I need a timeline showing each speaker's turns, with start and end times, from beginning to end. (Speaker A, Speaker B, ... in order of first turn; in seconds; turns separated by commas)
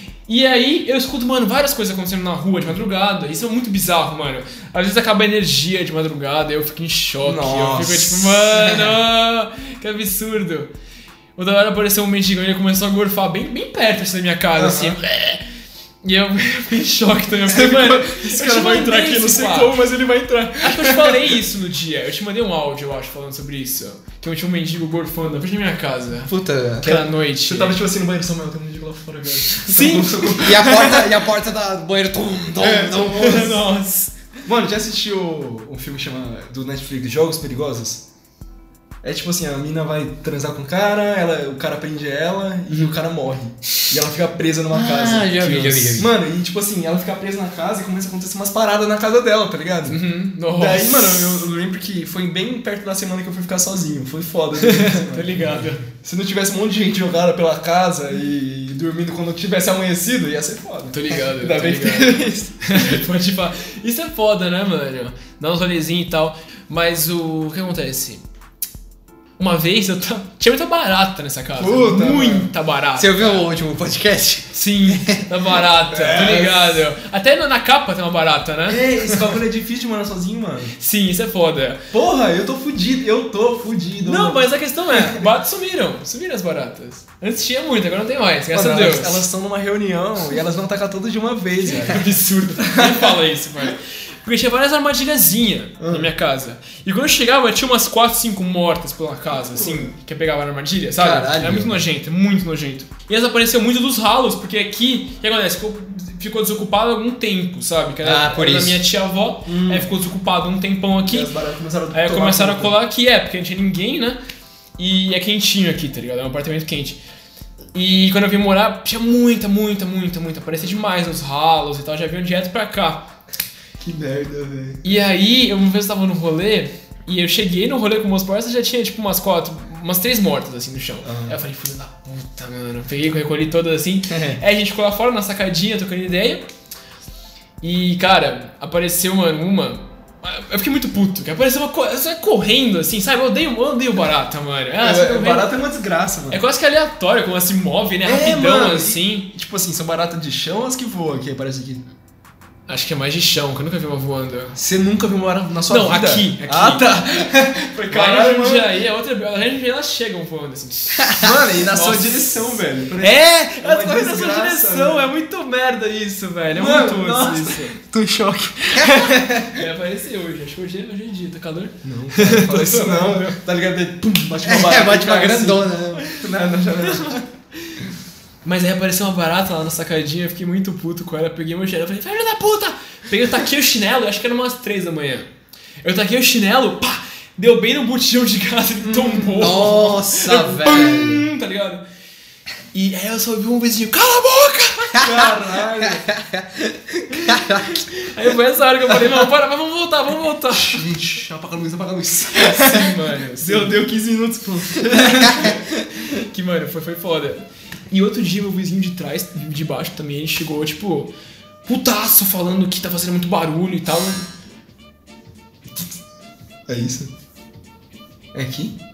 Speaker A: 0.3-10.7, Speaker B: 7.2-8.8, Speaker A: 11.4-15.4, Speaker B: 14.6-15.0, Speaker A: 16.0-19.8, Speaker B: 17.5-21.4, Speaker A: 20.6-27.8, Speaker C: 26.3-27.0, Speaker B: 27.4-31.1, Speaker A: 29.5-30.4, Speaker C: 30.4-33.6, Speaker B: 32.6-33.4, Speaker A: 33.0-34.1, Speaker B: 34.5-38.0, Speaker B: 39.0-50.0, Speaker C: 44.7-46.1, Speaker A: 49.9-51.5, Speaker B: 50.5-63.0, Speaker A: 54.6-55.8, Speaker A: 60.9-68.2, Speaker A: 69.4-73.5, Speaker B: 71.6-72.5, Speaker C: 73.0-75.2, Speaker A: 74.5-79.2, Speaker B: 75.9-76.8, Speaker B: 78.7-80.7, Speaker A: 80.8-81.8, Speaker B: 81.9-85.2, Speaker A: 84.0-89.3, Speaker B: 88.5-93.2, Speaker A: 91.6-111.3, Speaker B: 95.8-96.1, Speaker B: 99.3-99.9, Speaker C: 101.0-101.8, Speaker C: 108.0-108.9, Speaker B: 109.5-109.9, Speaker B: 111.0-112.8, Speaker A: 111.9-114.2, Speaker A: 114.8-117.0, Speaker A: 117.7-123.1, Speaker B: 123.8-124.8, Speaker A: 124.8-136.5, Speaker B: 131.0-131.4, Speaker B: 134.1-134.4, Speaker A: 137.6-145.6, Speaker B: 144.8-146.4, Speaker A: 146.3-149.3, Speaker B: 148.0-151.8, Speaker A: 152.7-154.6, Speaker B: 154.6-158.7, Speaker A: 155.7-167.8, Speaker B: 161.2-165.1, Speaker B: 166.5-169.6, Speaker A: 169.5-173.4, Speaker B: 171.8-177.2, Speaker C: 174.4-176.1, Speaker A: 176.8-177.2, Speaker A: 178.4-185.3, Speaker A: 185.8-191.8, Speaker B: 188.8-189.7, Speaker C: 189.4-191.3, Speaker A: 192.7-195.1, Speaker B: 195.0-196.1, Speaker C: 197.3-197.7, Speaker A: 197.7-200.9, Speaker B: 200.5-205.9, Speaker A: 202.4-203.8, Speaker A: 205.0-211.1, Speaker A: 211.7-214.3, Speaker B: 216.7-217.1, Speaker B: 218.3-218.8